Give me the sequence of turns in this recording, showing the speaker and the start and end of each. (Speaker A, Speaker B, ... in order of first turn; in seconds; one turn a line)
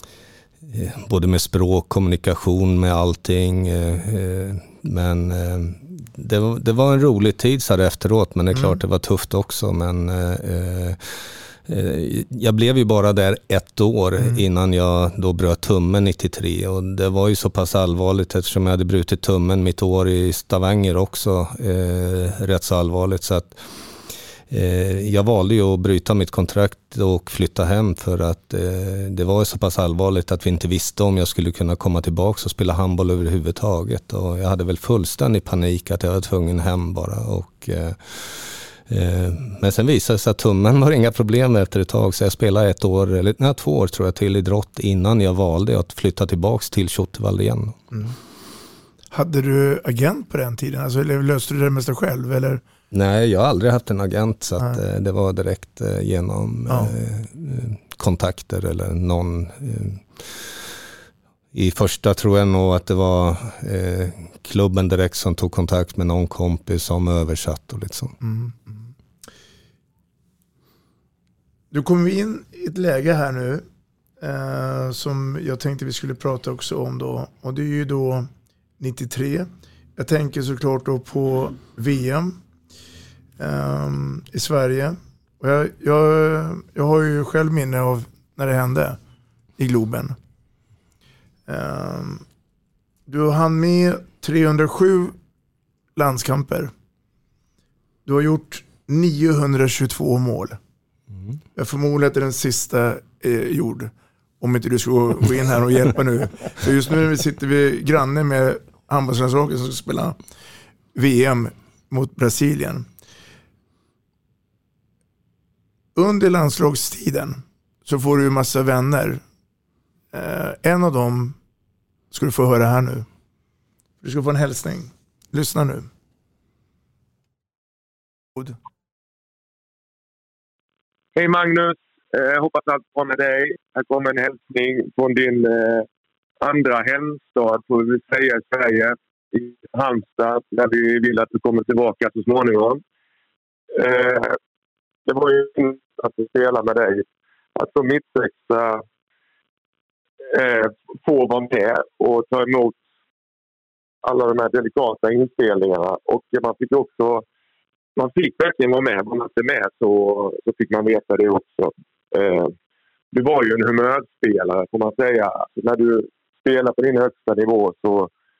Speaker A: 0.7-11.0
Speaker B: 8.5-8.8
Speaker A: 11.7-23.6
Speaker A: 24.5-47.8
Speaker B: 49.1-52.6
Speaker A: 52.9-60.4
Speaker B: 56.7-56.9
Speaker A: 61.5-68.2
Speaker B: 68.2-68.9
Speaker B: 71.7-73.6
Speaker B: 74.2-78.3
Speaker B: 78.8-82.4
Speaker B: 83.4-89.0
Speaker B: 89.6-90.2
Speaker B: 91.5-92.2
Speaker B: 93.1-95.1
Speaker B: 96.0-96.7
Speaker B: 98.0-100.6
Speaker B: 101.5-110.2
Speaker B: 110.9-112.8
Speaker B: 115.9-119.2
Speaker B: 120.1-121.4
Speaker B: 122.1-123.0
Speaker B: 124.0-125.9
Speaker C: 131.2-135.8
Speaker C: 136.4-142.8
Speaker C: 143.8-144.3
Speaker C: 145.1-147.0
Speaker C: 147.6-148.8
Speaker C: 150.3-152.8
Speaker C: 154.0-157.2
Speaker C: 158.0-162.5
Speaker C: 163.1-168.1